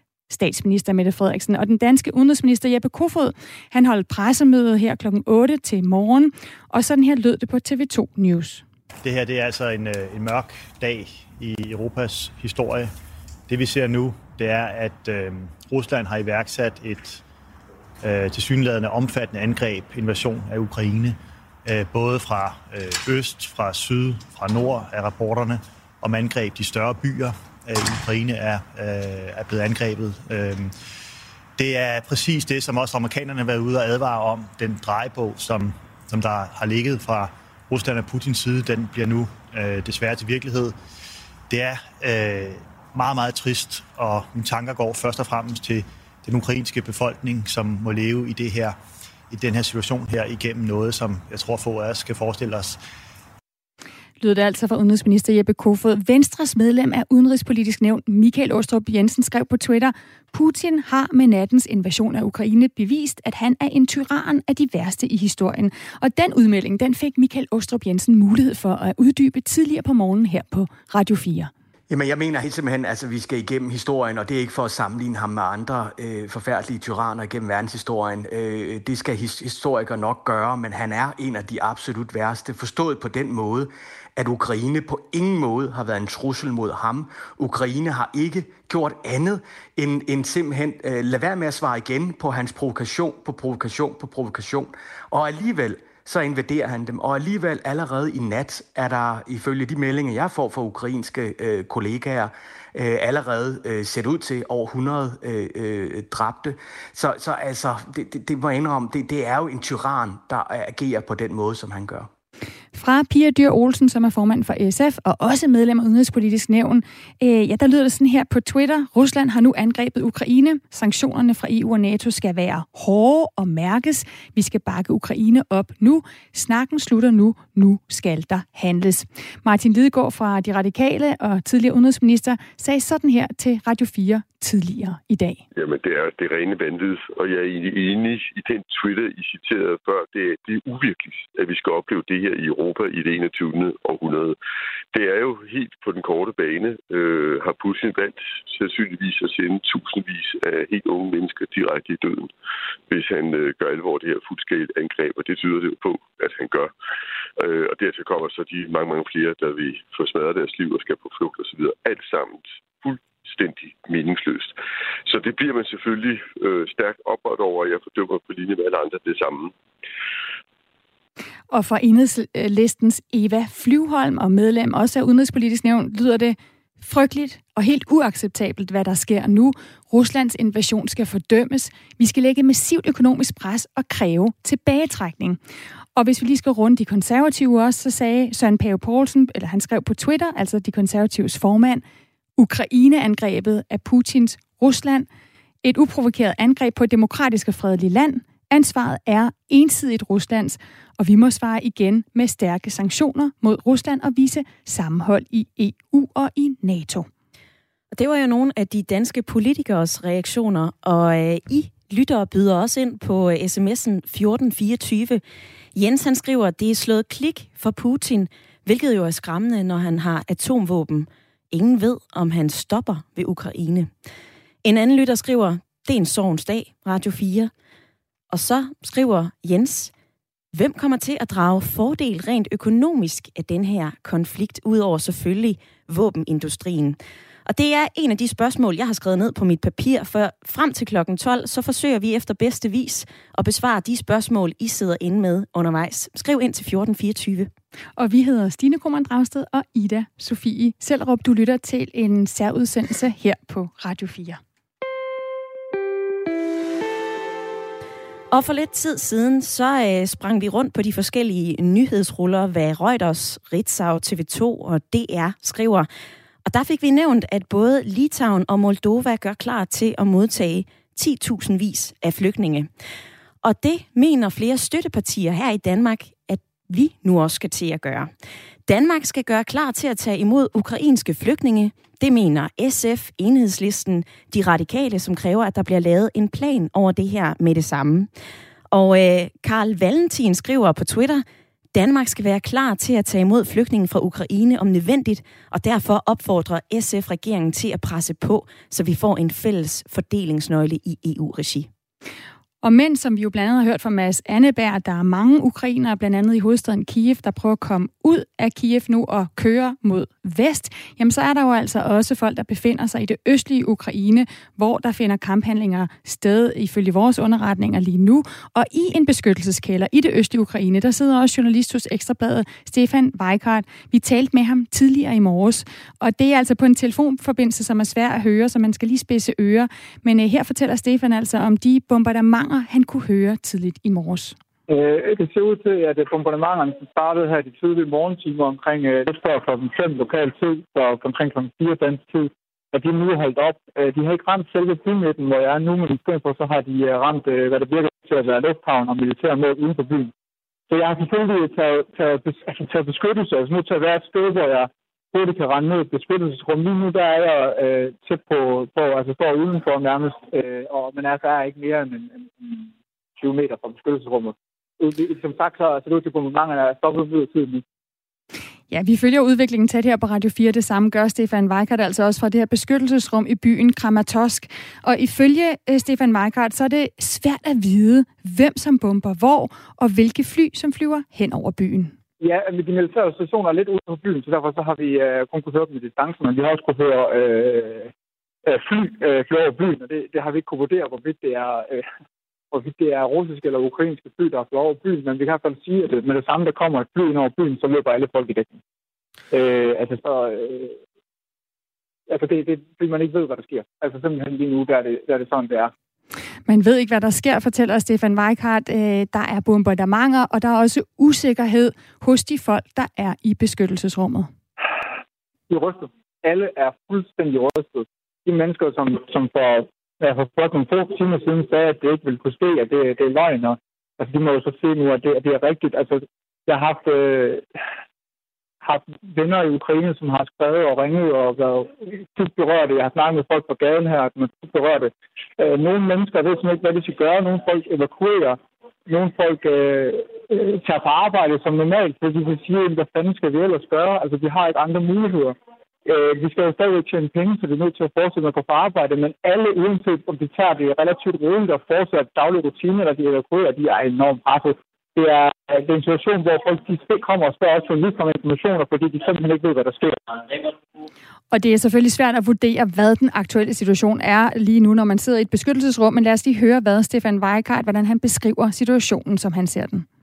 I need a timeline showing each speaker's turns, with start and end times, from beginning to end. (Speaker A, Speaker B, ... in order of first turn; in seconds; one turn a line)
Speaker A: 0.3-8.6
Speaker B: 9.0-12.9
Speaker B: 13.5-17.2
Speaker B: 18.0-30.7
Speaker B: 31.6-40.8
Speaker B: 41.5-48.8
Speaker B: 49.3-52.8
Speaker A: 54.2-71.5
Speaker C: 71.9-112.1
Speaker A: 112.7-135.4
Speaker D: 135.5-144.3
Speaker D: 144.9-152.3
Speaker D: 152.9-156.7
Speaker D: 157.4-164.6
Speaker D: 165.1-169.5
Speaker A: 171.5-185.4
Speaker A: 185.9-191.8
Speaker A: 192.4-195.1
Speaker A: 195.6-207.1
Speaker E: 207.9-215.2
Speaker E: 215.7-223.9
Speaker E: 224.6-227.5
Speaker E: 228.3-229.9
Speaker E: 230.5-247.5
Speaker A: 248.0-254.4
Speaker E: 258.3-265.9
Speaker E: 266.4-272.7
Speaker E: 273.4-278.1
Speaker E: 278.7-288.1
Speaker E: 288.7-291.2
Speaker E: 291.7-301.7
Speaker A: 302.6-334.4
Speaker F: 334.7-350.1
Speaker F: 350.7-367.6
Speaker A: 368.7-381.9
Speaker F: 382.2-387.9
Speaker F: 388.4-391.9
Speaker F: 392.5-398.6
Speaker F: 399.3-400.8
Speaker F: 402.1-405.7
Speaker A: 406.5-414.3
Speaker F: 415.5-427.4
Speaker F: 428.6-460.0
Speaker A: 461.3-469.9